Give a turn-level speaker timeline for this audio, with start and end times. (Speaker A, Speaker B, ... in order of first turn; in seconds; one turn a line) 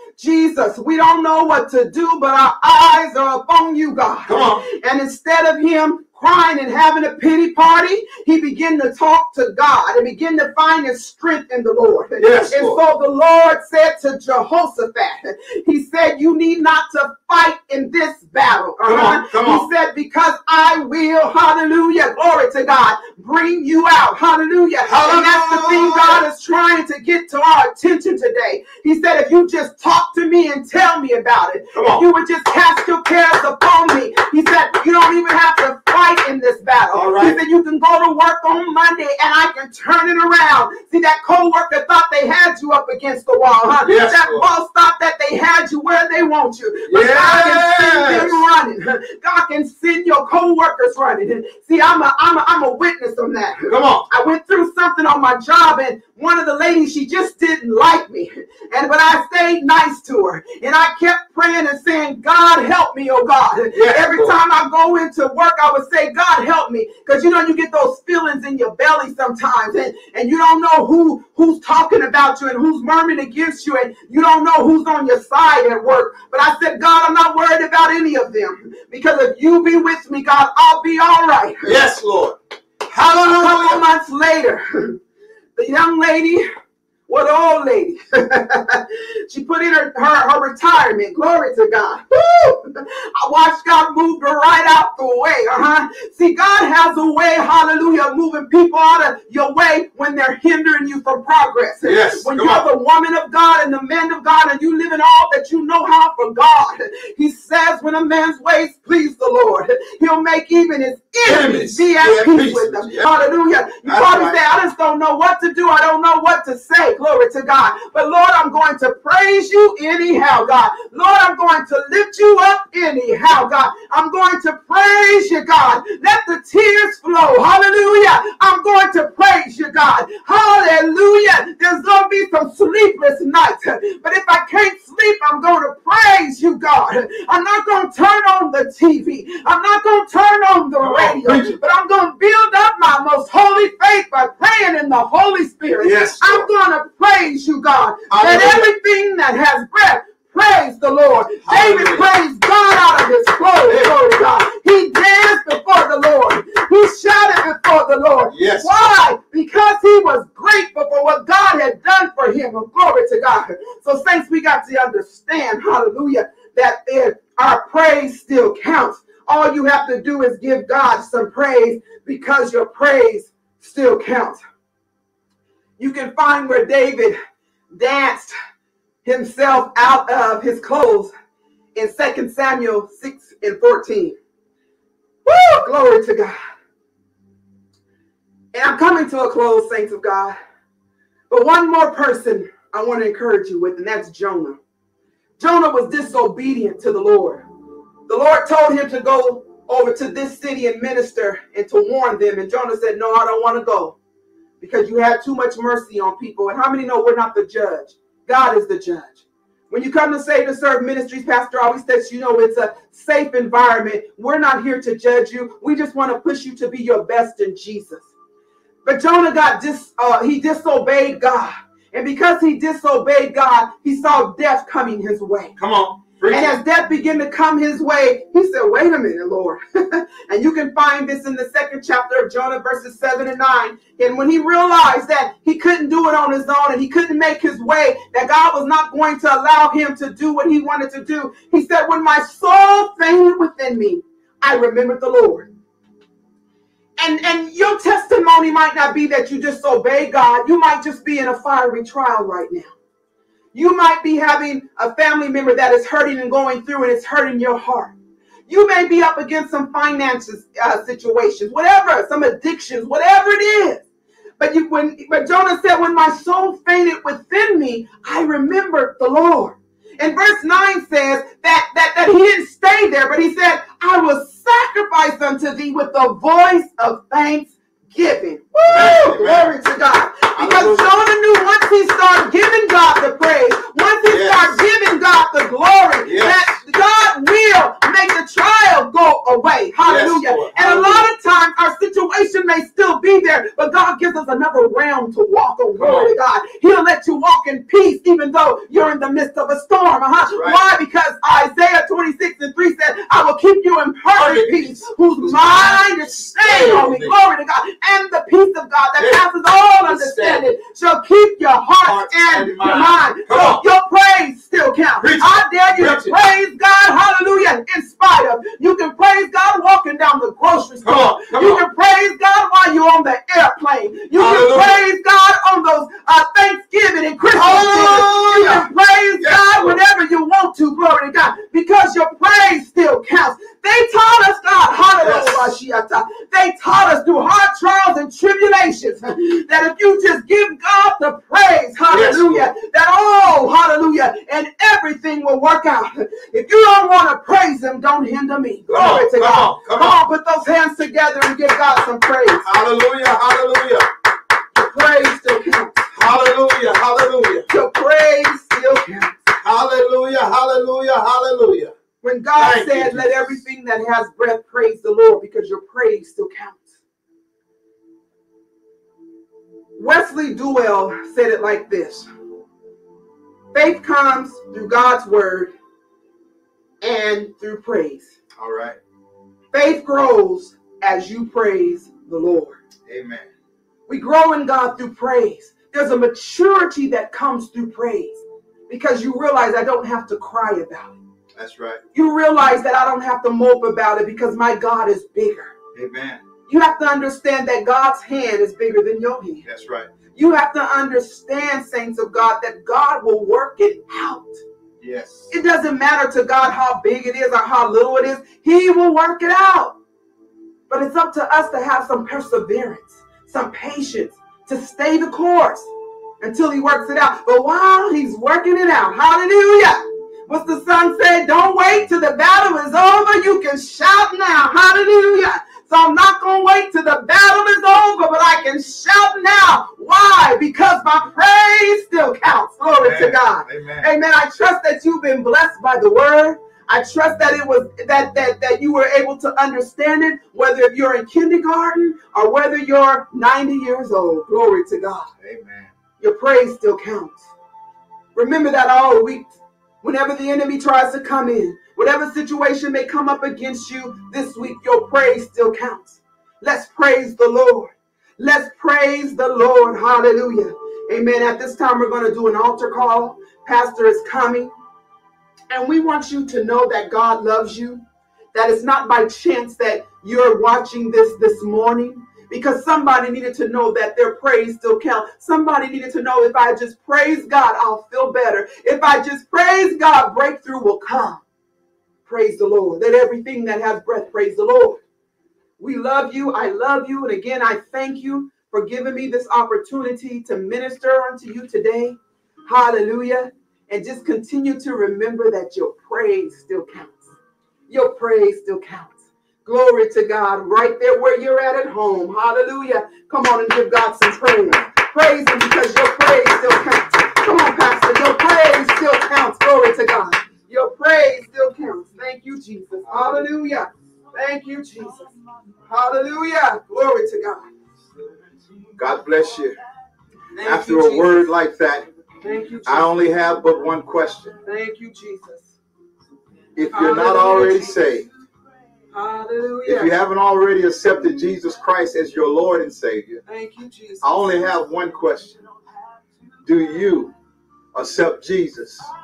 Speaker A: 0.2-81.7
Speaker B: 4.2-4.6
Speaker B: 12.2-12.8
Speaker B: 18.8-19.7
Speaker B: 24.8-26.2
Speaker B: 31.7-32.0
Speaker B: 36.9-37.4
Speaker B: 43.8-44.5
Speaker B: 46.9-48.5
Speaker B: 53.7-54.0
Speaker B: 63.7-64.3
Speaker B: 81.6-82.4
Speaker B: 82.9-83.8
Speaker A: 83.2-85.0
Speaker A: 85.6-86.4
Speaker A: 87.1-174.4
Speaker B: 101.8-102.7
Speaker B: 111.2-113.1
Speaker B: 113.8-114.4
Speaker B: 140.8-141.6
Speaker B: 145.8-146.5
Speaker B: 148.1-148.7
Speaker B: 151.4-152.1
Speaker B: 153.7-153.9
Speaker B: 158.3-158.7
Speaker A: 175.8-177.2
Speaker A: 177.7-178.3
Speaker A: 179.0-181.1
Speaker A: 181.7-184.2
Speaker A: 185.2-186.3
Speaker A: 188.5-190.3
Speaker A: 191.3-194.6
Speaker A: 195.4-197.4
Speaker A: 198.1-204.0
Speaker A: 204.6-218.1
Speaker A: 218.8-225.5
Speaker B: 225.6-226.6
Speaker A: 226.3-245.5
Speaker A: 247.0-252.7
Speaker A: 253.5-257.9
Speaker A: 258.5-263.8
Speaker A: 264.4-352.4
Speaker B: 278.6-279.6
Speaker B: 280.4-280.9
Speaker B: 284.1-284.6
Speaker B: 286.0-286.5
Speaker B: 289.8-291.1
Speaker B: 295.8-296.1
Speaker B: 300.2-300.6
Speaker B: 304.1-307.1
Speaker B: 309.8-310.4
Speaker B: 311.8-313.6
Speaker B: 315.0-316.1
Speaker B: 320.8-321.6
Speaker B: 324.1-324.8
Speaker B: 327.3-328.7
Speaker B: 329.2-329.8
Speaker B: 335.0-335.5
Speaker B: 341.9-342.5
Speaker B: 348.7-350.0
Speaker B: 352.4-353.9
Speaker A: 354.5-355.8
Speaker B: 355.9-357.5
Speaker A: 357.5-359.2
Speaker B: 359.3-361.7
Speaker A: 362.0-366.7
Speaker B: 362.4-363.4
Speaker A: 369.8-372.1
Speaker A: 373.5-375.5
Speaker A: 376.8-378.1
Speaker B: 378.4-378.8
Speaker A: 379.5-382.6
Speaker B: 382.9-383.3
Speaker A: 383.9-390.9
Speaker B: 391.4-391.8
Speaker A: 391.9-395.5
Speaker B: 395.7-396.2
Speaker A: 396.5-399.4
Speaker B: 399.4-399.9
Speaker A: 400.1-404.4
Speaker B: 404.8-405.3
Speaker A: 405.3-409.8
Speaker A: 410.7-415.7
Speaker A: 416.2-445.1
Speaker B: 432.8-433.9
Speaker B: 445.2-445.7
Speaker A: 446.0-447.2
Speaker A: 448.1-464.5
Speaker A: 465.5-467.8
Speaker A: 468.3-481.2
Speaker A: 482.1-484.8
Speaker A: 485.6-497.1
Speaker A: 497.7-515.1
Speaker A: 515.7-517.5
Speaker B: 518.8-519.5
Speaker A: 520.3-521.3
Speaker B: 520.4-521.9
Speaker A: 522.2-522.9
Speaker B: 522.6-524.4
Speaker A: 524.5-525.5
Speaker B: 526.5-528.1
Speaker A: 526.7-527.8
Speaker A: 528.9-529.9
Speaker B: 529.6-533.2
Speaker A: 533.2-534.4
Speaker B: 534.0-535.4
Speaker B: 536.4-537.1
Speaker B: 537.7-538.9